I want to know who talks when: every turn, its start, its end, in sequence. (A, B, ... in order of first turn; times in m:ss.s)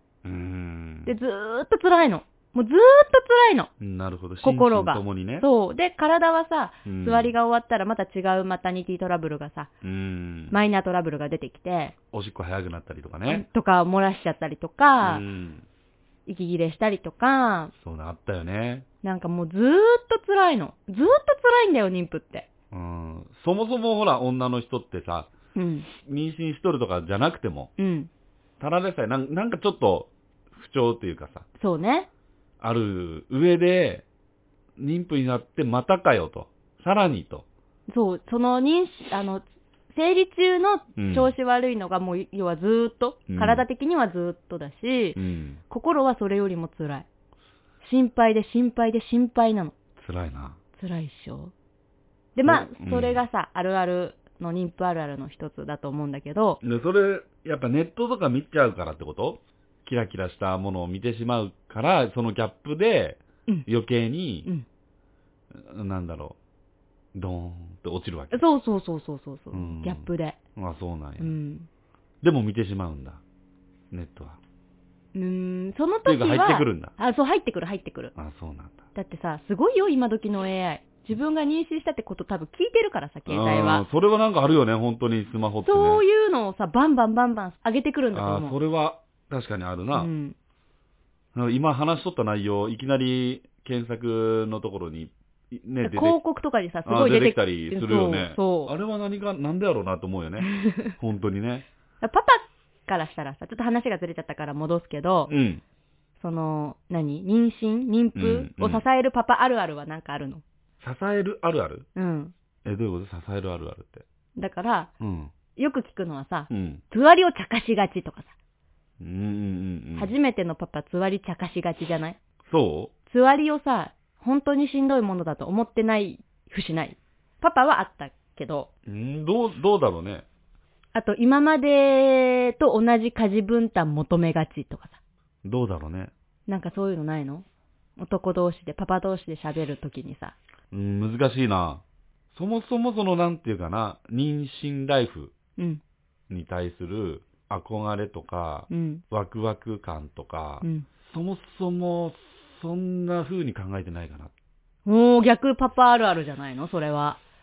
0:00.2-0:01.1 A
0:01.0-0:03.7 B
0:03.8-0:05.5 A
0:04.4-0:09.7 B
0:06.9-0:07.3 A
0:09.8-0:10.6 A
0:10.5-0:11.9 B
0:12.1-0:13.4 A
0:13.3-0:15.2 B
0:15.0-0:15.6 A
0:16.3-0:17.7 B
0:17.8-0:18.9 A
0:19.0-0:22.5 B
0:22.7-0:25.3 A
0:25.6-0:25.9 B
0:26.0-0:27.7 A
0:27.8-0:28.1 B
0:28.6-0:31.4 A
0:31.6-0:32.1 B
0:32.6-0:34.0 A
0:34.8-0:37.5 A
0:37.9-0:47.1 B
0:41.0-0:41.3 A
0:43.3-0:43.6 A
0:45.2-0:45.6 A
0:47.8-0:49.8 B
0:50.0-0:50.6 A
0:50.8-0:51.5 B
0:52.4-0:56.6 B
0:52.4-0:53.2 A
0:56.6-1:04.5 A
1:05.5-1:06.4 A
1:07.1-1:08.4 A
1:08.3-1:10.4 B
1:09.5-1:11.4 A
1:11.2-1:11.7 B
1:12.2-1:13.2 A
1:13.9-1:14.4 A
1:15.1-1:18.1 B
1:16.1-1:16.9 A
1:18.2-1:18.8 A
1:19.0-1:23.8 B
1:23.3-1:26.0 A
1:25.6-1:28.6 B
1:28.1-1:30.1 A
1:29.9-1:30.4 B
1:31.3-1:36.2 A
1:35.8-1:38.7 B
1:36.9-1:41.7 A
1:40.4-1:40.9 B
1:42.0-1:45.3 B
1:45.3-1:45.6 A
1:46.2-1:50.4 B
1:48.2-1:48.8 A
1:50.8-1:51.9 A
1:52.0-1:52.3 B
1:52.6-1:54.0 A
1:54.4-1:54.9 B
1:55.0-1:55.3 A
1:55.6-1:58.3 B
1:56.5-1:56.8 A
1:59.0-2:00.1 A
2:00.0-2:02.2 B
2:02.4-2:02.9 A
2:03.1-2:08.7 B
2:08.9-2:10.2 A
2:11.0-2:15.0 B
2:15.4-2:16.1 A
2:16.5-2:17.4 B
2:18.0-2:20.4 B
2:20.7-2:21.8 A
2:22.3-2:25.3 A
2:26.3-2:34.3 A
2:28.7-2:29.0 B
2:34.8-2:37.2 B